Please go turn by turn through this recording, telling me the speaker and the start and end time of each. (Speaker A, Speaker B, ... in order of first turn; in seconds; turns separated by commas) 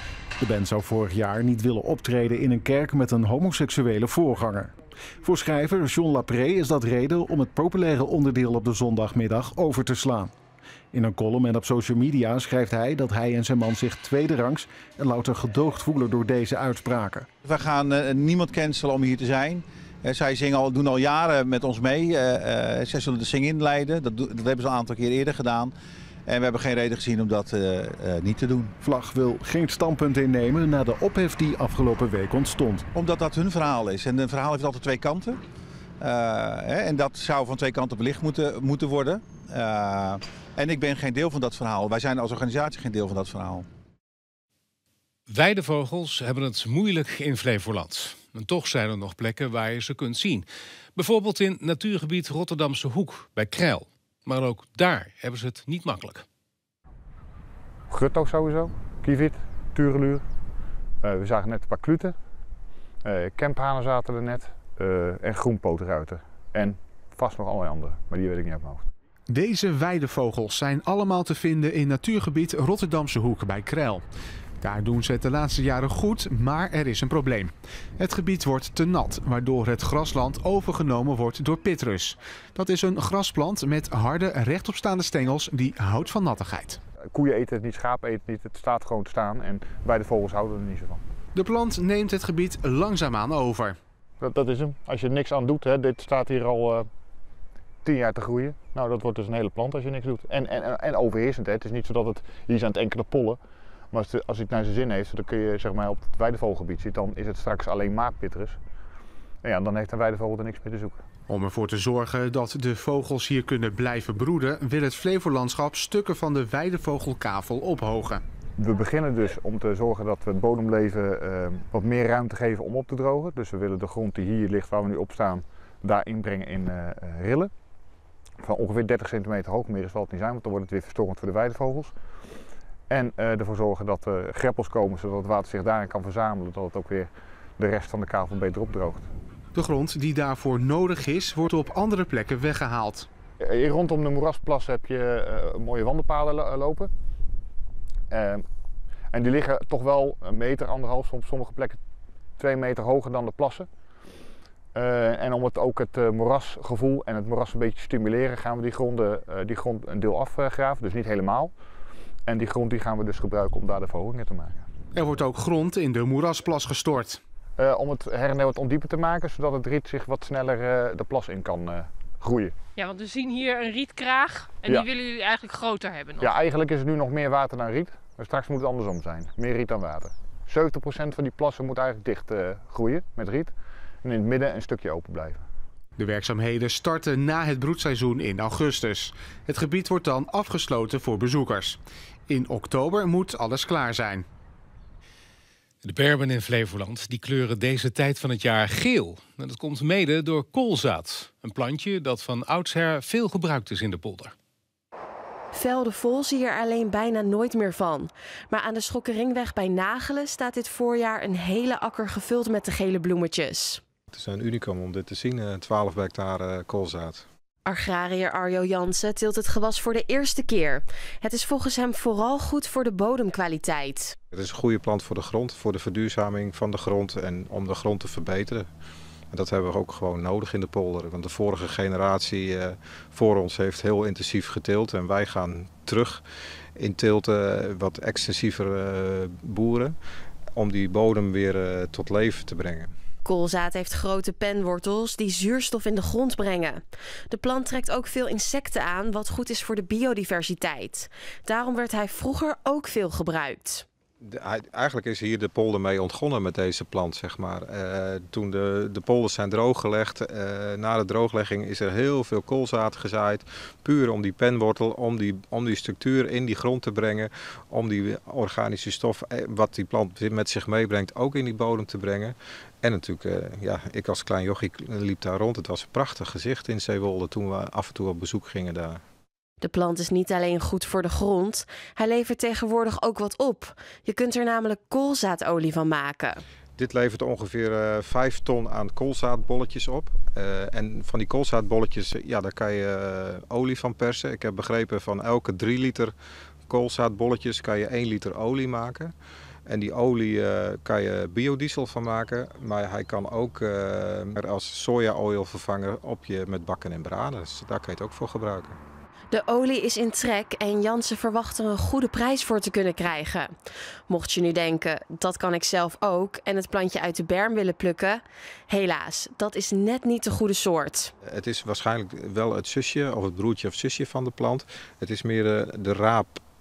Speaker A: 0.4-10.3, Speaker A: 10.9-17.3, Speaker B: 17.4-25.7, Speaker B: 26.3-28.7, Speaker A: 28.8-32.9, Speaker B: 32.9-35.4, Speaker B: 36.0-43.7, Speaker C: 45.3-56.2, Speaker D: 57.9-60.2, Speaker D: 61.0-62.1, Speaker D: 63.0-68.9, Speaker E: 69.3-74.0, Speaker E: 74.6-86.8, Speaker D: 87.1-91.0, Speaker E: 91.3-93.8, Speaker D: 94.2-96.9, Speaker D: 97.8-103.4, Speaker D: 103.9-108.6, Speaker D: 109.4-111.0, Speaker E: 111.3-118.2, Speaker D: 118.6-127.5, Speaker D: 128.4-131.9, Speaker D: 132.9-139.1, Speaker E: 139.5-143.1, Speaker D: 143.4-146.9, Speaker D: 148.1-148.4, Speaker D: 149.1-151.8, Speaker D: 152.4-153.7, Speaker D: 154.8-161.5, Speaker D: 162.3-164.7, Speaker E: 164.9-167.2, Speaker D: 167.6-172.5, Speaker F: 172.8-176.3, Speaker D: 176.2-183.5, Speaker D: 184.0-185.4, Speaker E: 186.0-194.3, Speaker C: 195.8-204.3, Speaker G: 205.5-213.8, Speaker H: 214.1-217.2, Speaker G: 217.7-224.2, Speaker H: 224.3-228.6, Speaker H: 229.3-236.2, Speaker H: 236.8-239.9, Speaker H: 240.6-242.9, Speaker G: 243.2-253.9, Speaker H: 254.6-279.0, Speaker G: 279.6-286.4, Speaker H: 286.8-296.1, Speaker H: 296.7-299.1, Speaker H: 299.7-308.8, Speaker G: 309.3-313.5, Speaker G: 314.1-321.1, Speaker H: 321.3-326.4